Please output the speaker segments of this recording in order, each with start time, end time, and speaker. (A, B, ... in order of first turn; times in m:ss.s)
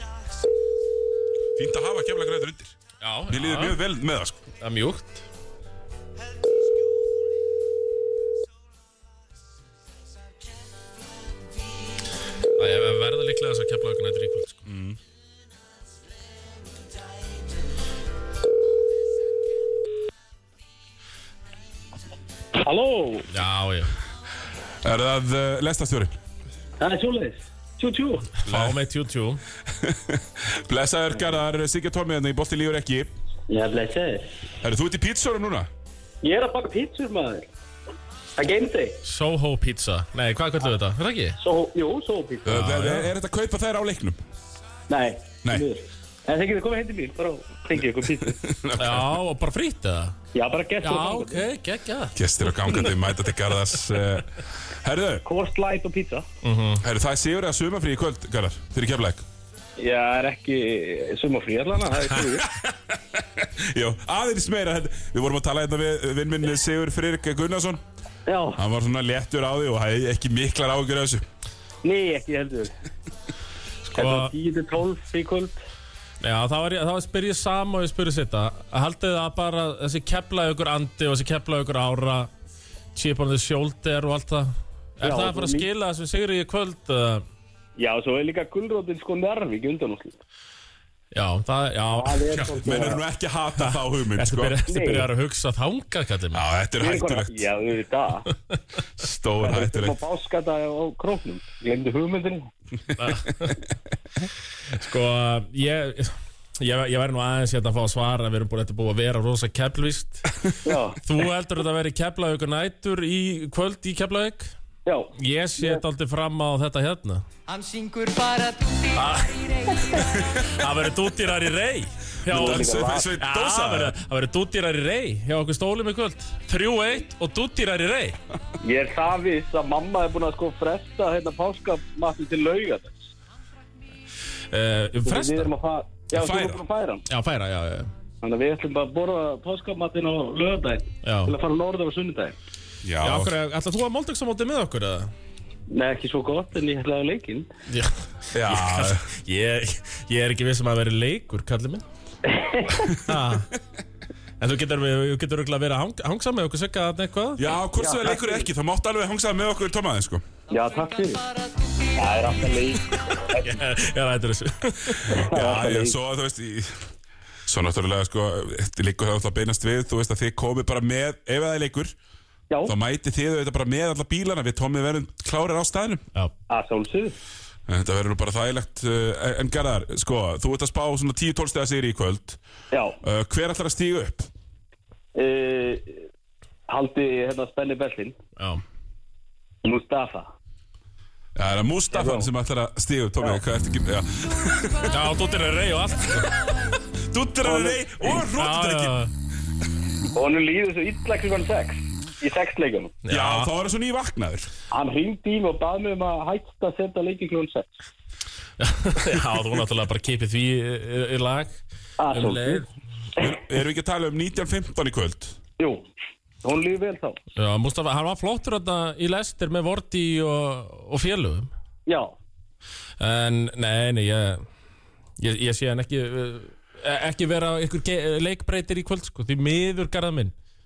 0:01.6-0:02.7 A
0:03.0-0:03.8 B
0:03.3-0:04.4 A
0:04.6-0:05.2 B
0:12.6-0:14.7 B
0:14.6-0:15.0 A
0:22.5-0:23.3 C
0:23.3-0:23.9 B
0:24.8-0:26.2 A
0:26.8-0:28.3 C
0:28.4-0:29.4 B
0:28.5-0:28.8 A
0:29.7-0:33.1 A
0:33.5-0:34.3 C
0:34.6-0:35.7 A
0:36.2-0:37.4 C
0:38.4-0:39.0 C
0:39.0-0:41.4 B
0:41.4-0:42.6 C
0:42.4-0:44.2 A
0:42.5-0:43.1 B
0:44.9-0:48.4 C
0:48.3-0:49.2 A
0:48.8-0:50.2 B
0:50.3-0:51.4 C
0:50.8-0:52.9 B
0:52.1-0:55.2 A
0:55.2-0:56.3 C
0:56.4-0:56.8 B
0:56.8-0:59.2 A
0:59.8-1:02.5 C
1:02.2-1:07.8 A
1:08.2-1:08.6 C
1:08.6-1:11.2 A
1:11.8-1:12.7 C
1:13.9-1:14.3 B
1:14.0-1:15.6 C
1:16.2-1:22.3 B
1:22.9-1:27.2 B
1:25.0-1:25.7 C
1:27.8-1:30.2 C
1:31.1-1:32.5 B
1:32.0-1:33.0 C
1:32.3-1:34.6 A
1:33.6-1:36.4 B
1:34.7-1:35.1 C
1:36.3-1:37.4 A
1:36.8-1:38.3 C
1:39.0-1:40.0 A
1:39.4-1:42.5 C
1:43.0-1:43.6 B
1:44.7-1:50.3 B
1:50.6-1:51.0 C
1:51.0-1:54.5 B
1:54.8-1:55.8 C
1:55.1-1:57.2 B
1:57.6-1:58.5 C
1:58.8-2:08.2 B
2:02.3-2:03.1 C
2:02.3-2:03.9 A
2:08.6-2:13.1 C
2:14.5-2:15.5 B
2:15.0-2:17.0 C
2:16.1-2:16.6 A
2:17.1-2:17.9 B
2:18.2-2:22.3 C
2:21.0-2:21.3 B
2:22.8-2:23.3 A
2:23.0-2:25.1 B
2:25.7-2:27.5 C
2:27.7-2:31.8 B
2:28.3-2:29.0 A
2:32.3-2:32.9 C
2:32.9-2:33.5 B
2:34.4-2:37.5 B
2:37.4-2:40.2 A
2:37.8-2:38.4 C
2:40.5-2:41.3 C
2:41.9-2:43.5 C
2:43.2-2:45.3 B
2:45.0-2:46.9 A
2:45.2-2:46.0 C
2:47.4-2:51.9 A
2:52.6-2:56.0 A
2:56.5-2:57.2 C
2:57.7-3:02.4 A
3:02.7-3:03.0 C
3:03.0-3:04.3 A
3:05.1-3:06.0 C
3:06.7-3:08.2 C
3:08.4-3:08.6 B
3:09.6-3:10.3 C
3:11.3-3:15.0 A
3:11.9-3:12.3 C
3:14.9-3:16.4 B
3:16.9-3:19.0 A
3:17.4-3:17.8 C
3:18.3-3:19.1 B
3:20.1-3:23.0 C
3:23.0-3:23.5 B
3:23.1-3:24.5 A
3:24.7-3:27.7 C
3:28.6-3:31.6 B
3:32.0-3:32.6 C
3:32.1-3:32.7 B
3:33.2-3:35.4 A
3:35.6-3:35.8 C
3:36.4-3:37.2 C
3:37.4-3:41.5 B
3:41.8-3:42.1 C
3:43.0-3:44.4 B
3:45.2-3:50.3 B